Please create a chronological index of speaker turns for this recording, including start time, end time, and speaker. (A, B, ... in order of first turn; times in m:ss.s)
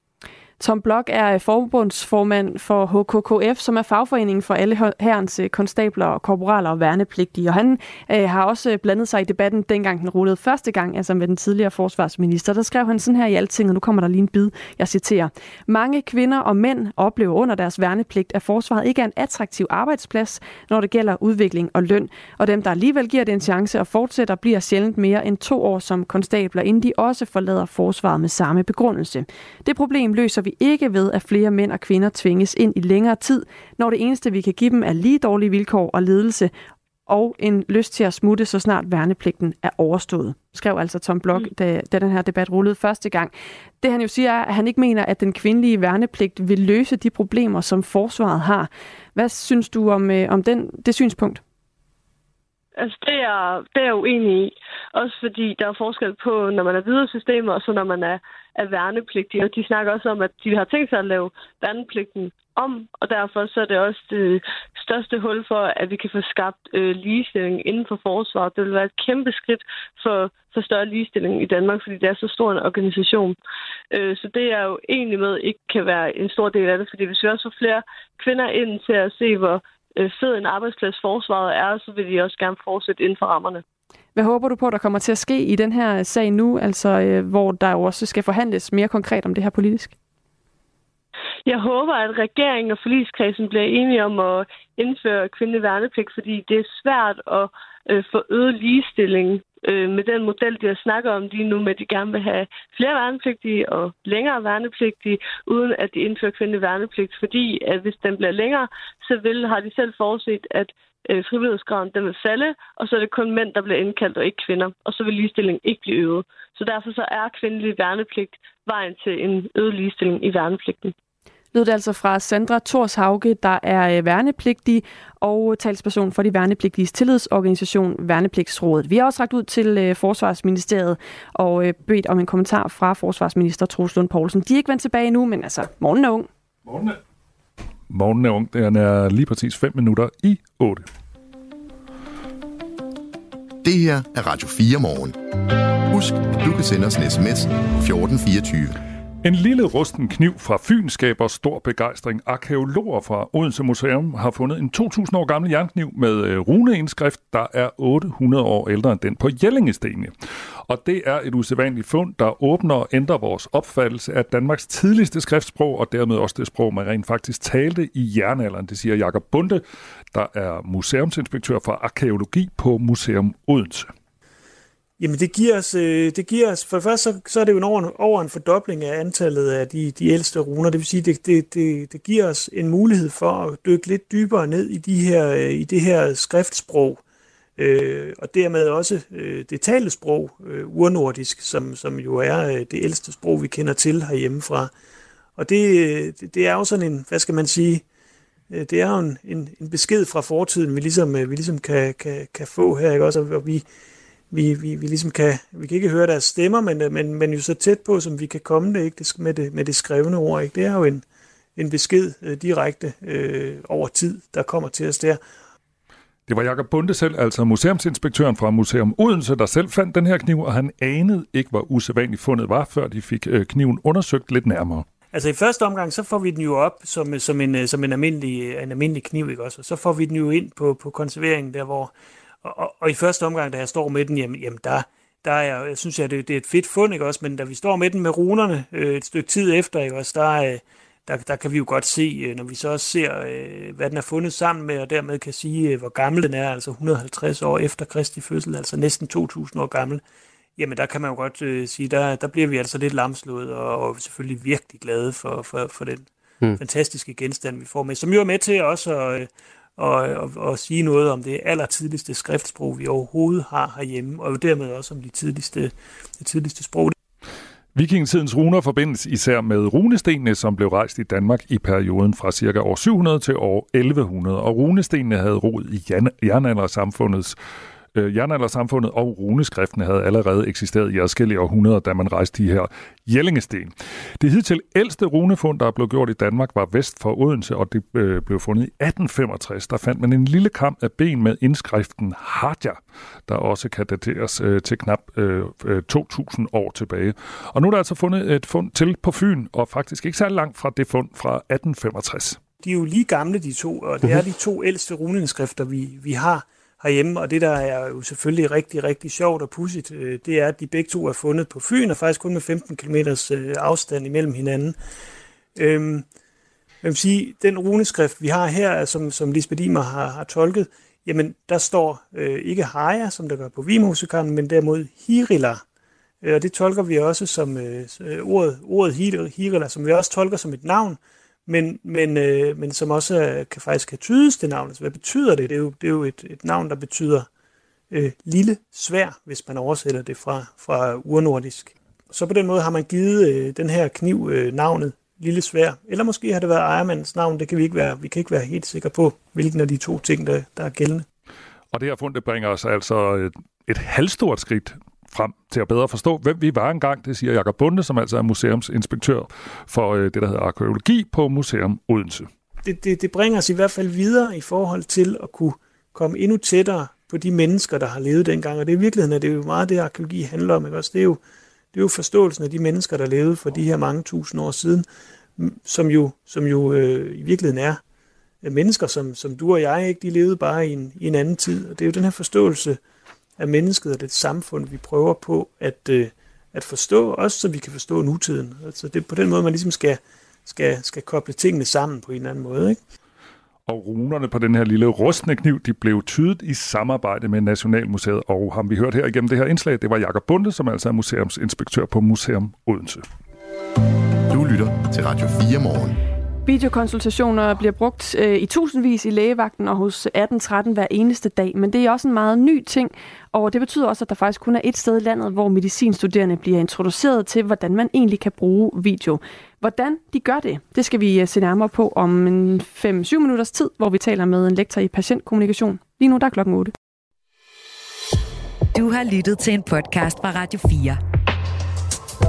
0:00.6-0:36.5 A
0:37.1-0:51.4 A
0:52.8-1:13.4 B
1:13.9-1:23.6 B
1:24.1-1:29.9 A
1:31.4-2:00.9 B
2:01.5-2:16.3 A
2:16.6-2:17.0 C
2:17.9-2:20.8 C
2:23.6-2:25.2 D
2:25.9-2:28.7 D
2:29.2-2:40.1 C
2:40.7-2:53.9 C
2:55.0-3:07.0 E
3:07.6-3:14.7 E
3:15.4-3:17.8 E
3:18.5-3:23.6 E
3:24.3-3:31.0 E
3:31.6-3:35.2 E
3:36.3-3:44.8 C
3:45.1-3:51.9 E
3:52.4-4:10.0 E
4:10.6-4:26.9 E
4:27.7-4:37.4 C
4:37.9-5:02.4 C
5:02.6-5:14.8 E
5:15.6-5:16.0 E
5:16.8-5:25.6 E
5:26.2-5:37.3 E
5:37.9-5:51.0 E
5:51.7-6:02.3 C
6:02.6-6:11.2 E
6:11.7-6:14.9 E
6:15.4-6:17.8 E
6:18.4-6:22.8 E
6:23.4-6:32.8 E
6:33.6-6:43.0 C
6:44.3-6:46.0 D
6:46.4-7:06.7 A
7:08.7-7:11.0 F